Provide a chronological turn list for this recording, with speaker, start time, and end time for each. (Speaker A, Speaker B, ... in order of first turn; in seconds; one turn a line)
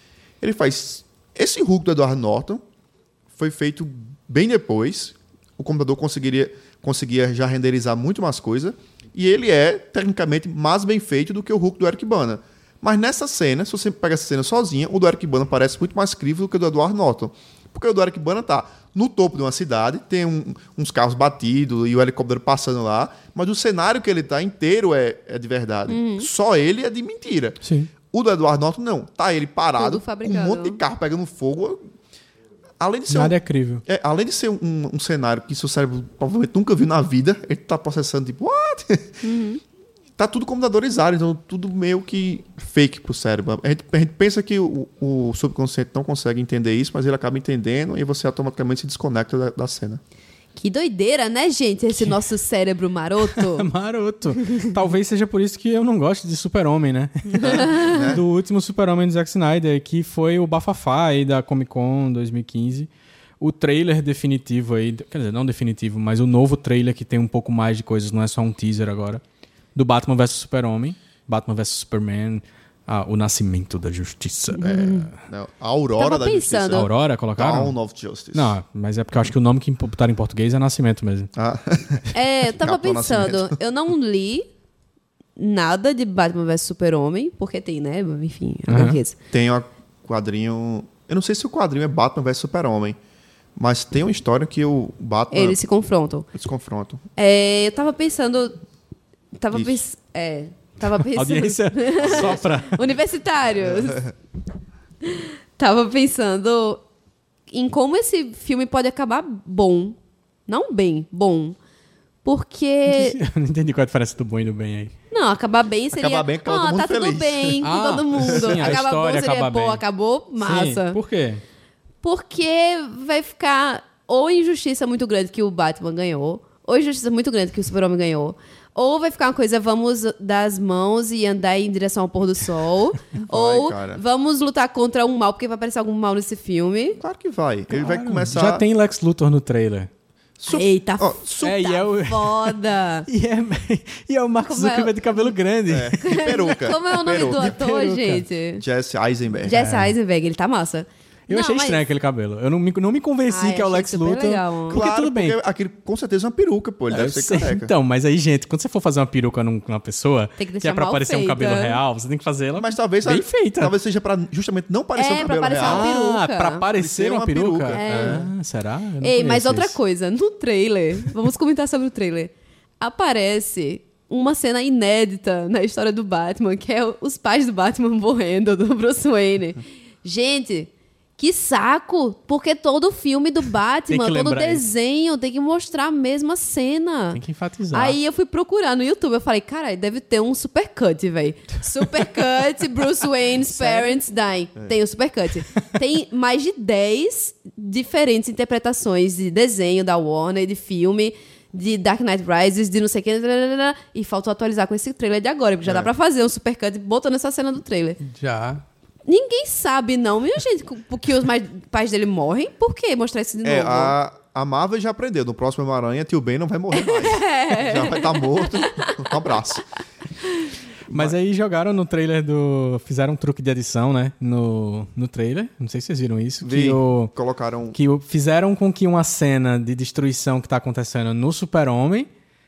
Speaker A: 0.4-2.6
Speaker A: 3.4-31.8
Speaker B: 25.9-26.3
Speaker C: 27.6-27.9
Speaker B: 29.8-30.8
Speaker A: 32.8-39.2
Speaker C: 33.1-33.8
Speaker B: 39.2-39.6
Speaker A: 40.2-50.0
Speaker B: 50.6-53.7
Speaker C: 52.0-52.2
Speaker C: 53.3-62.9
Speaker A: 57.4-58.2
Speaker B: 57.5-57.9
Speaker C: 63.4-69.2
Speaker C: 69.8-74.9
Speaker B: 74.6-75.1
Speaker A: 74.6-78.5
Speaker B: 76.0-76.9
Speaker C: 76.7-77.8
Speaker C: 78.3-81.3
Speaker A: 81.3-83.5
Speaker B: 82.1-84.5
Speaker B: 85.4-89.2
Speaker C: 88.7-89.0
Speaker A: 89.3-93.0
Speaker A: 93.6-95.6
Speaker B: 95.3-96.3
Speaker A: 96.3-97.0
Speaker B: 97.2-98.6
Speaker B: 99.4-104.1
Speaker A: 99.5-99.8
Speaker C: 101.0-102.8
Speaker A: 102.0-102.4
Speaker A: 103.6-104.1
Speaker B: 105.0-106.8
Speaker B: 107.5-110.0
Speaker B: 110.5-111.6
Speaker B: 112.2-113.2
Speaker C: 112.9-114.9
Speaker B: 115.1-121.0
Speaker A: 115.9-117.6
Speaker C: 117.6-119.8
Speaker A: 118.2-118.8
Speaker C: 120.4-121.4
Speaker B: 122.0-137.0
Speaker A: 133.3-134.0
Speaker A: 137.0-138.6
Speaker C: 137.7-139.9
Speaker A: 140.4-141.7
Speaker B: 140.5-143.1
Speaker C: 141.4-142.6
Speaker C: 143.1-146.0
Speaker B: 144.5-145.3
Speaker A: 145.7-147.6
Speaker B: 146.0-148.6
Speaker C: 147.1-148.2
Speaker A: 148.6-149.6
Speaker B: 149.4-151.8
Speaker C: 149.5-149.9
Speaker C: 151.3-155.4
Speaker B: 153.3-154.8
Speaker A: 154.7-157.7
Speaker C: 156.9-163.7
Speaker B: 160.4-161.8
Speaker A: 162.6-165.9
Speaker B: 165.0-166.7
Speaker C: 165.6-169.8
Speaker A: 166.7-168.2
Speaker B: 167.7-168.3
Speaker B: 169.0-187.2
Speaker C: 183.9-184.6
Speaker C: 187.1-188.0
Speaker B: 187.7-208.0
Speaker C: 193.6-193.9
Speaker A: 205.6-205.9
Speaker C: 208.0-208.6
Speaker B: 209.1-213.9
Speaker A: 213.4-219.7
Speaker B: 216.7-219.0
Speaker A: 220.9-221.2
Speaker C: 220.9-227.1
Speaker A: 226.4-227.8
Speaker C: 227.7-232.1